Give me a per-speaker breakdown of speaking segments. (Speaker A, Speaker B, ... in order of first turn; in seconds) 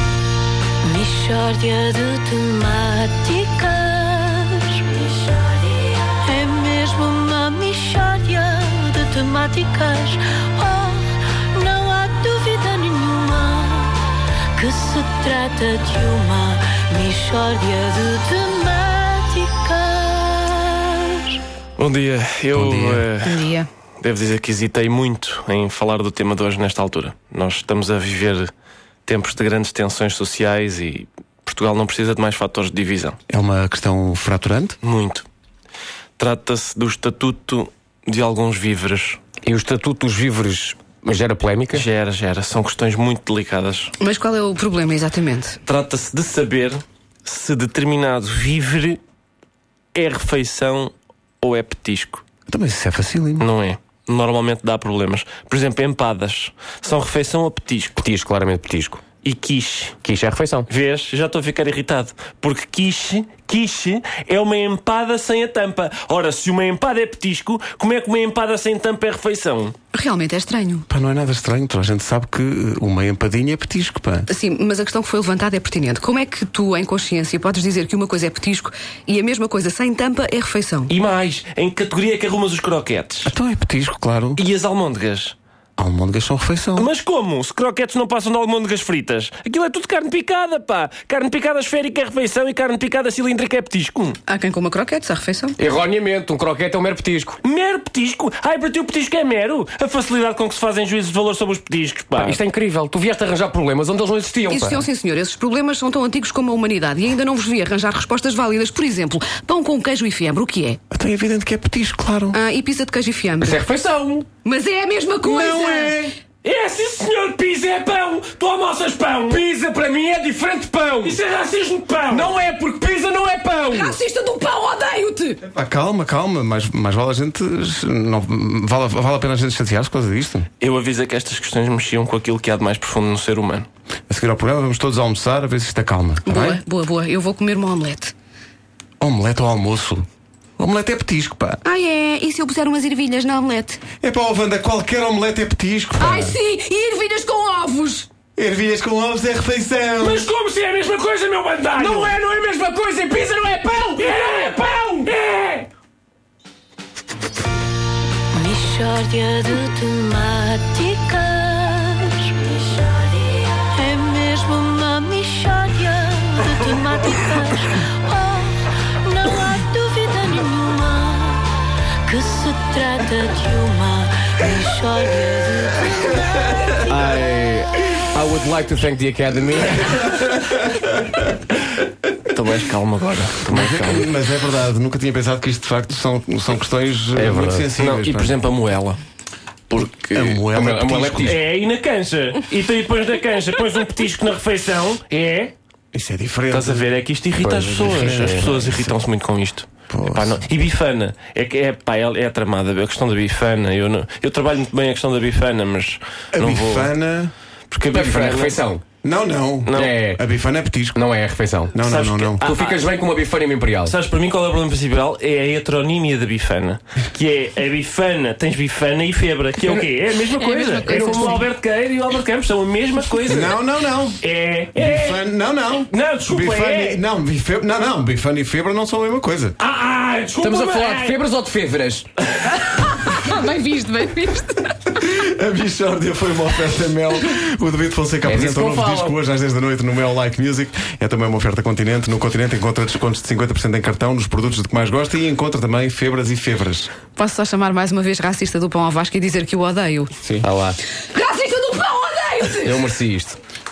Speaker A: 0.8-14.0, 14.6-21.4, 158.3-171.5, 172.1-176.2
Speaker B: 21.8-23.5, 24.0-28.5, 29.1-33.2, 34.8-35.2, 36.2-39.2, 41.7-43.9, 45.6-49.0, 49.9-52.2, 53.4-58.0, 59.2-60.0, 60.7-69.7, 80.9-83.3, 84.3-85.3, 86.8-94.2, 97.4-102.4, 116.4-119.5, 121.0-122.3, 130.6-133.7, 150.0-152.1, 154.0-155.7, 182.3-184.1, 187.8-189.0, 189.7-190.4, 191.2-195.5, 196.5-206.9, 207.7-208.6, 209.6-210.0, 211.8-212.8, 213.8-223.6, 224.2-225.2, 225.8-227.0, 229.6-231.2
Speaker C: 22.5-23.1, 33.3-34.8, 52.5-53.4, 70.9-74.3, 83.2-84.4, 85.8-86.9, 110.9-112.4, 115.2-116.1, 125.4-130.4, 134.1-136.6, 139.0-140.1, 140.6-141.6, 144.0-146.4, 148.3-150.2, 183.5-188.3, 190.1-191.4, 195.9-196.8, 197.8-198.9, 199.9-200.4, 206.3-207.3, 209.0-211.0, 211.7-212.5, 223.2-224.2, 224.7-229.5, 234.9-246.9
Speaker D: 23.2-23.7, 44.0-45.6, 69.9-70.9, 74.3-80.9, 94.3-95.6, 104.5-110.8, 112.3-113.6, 114.4-116.0, 123.7-125.4, 136.2-138.1, 141.6-143.8, 146.0-148.1, 220.4-221.5, 232.7-234.7, 247.2-250.2, 251.0-252.9
Speaker E: 39.4-41.9, 58.0-59.0, 60.0-60.7, 95.6-97.4, 102.2-104.8, 113.4-114.3, 119.3-121.2, 122.1-124.0, 151.8-155.1, 176.8-180.1, 187.1-187.7, 190.5-191.3, 197.4-198.5, 207.9-208.8, 209.7-210.2, 210.9-211.8, 212.4-213.9, 219.6-219.9, 230.4-232.1, 238.2-239.2, 250.2-250.8, 252.6-253.4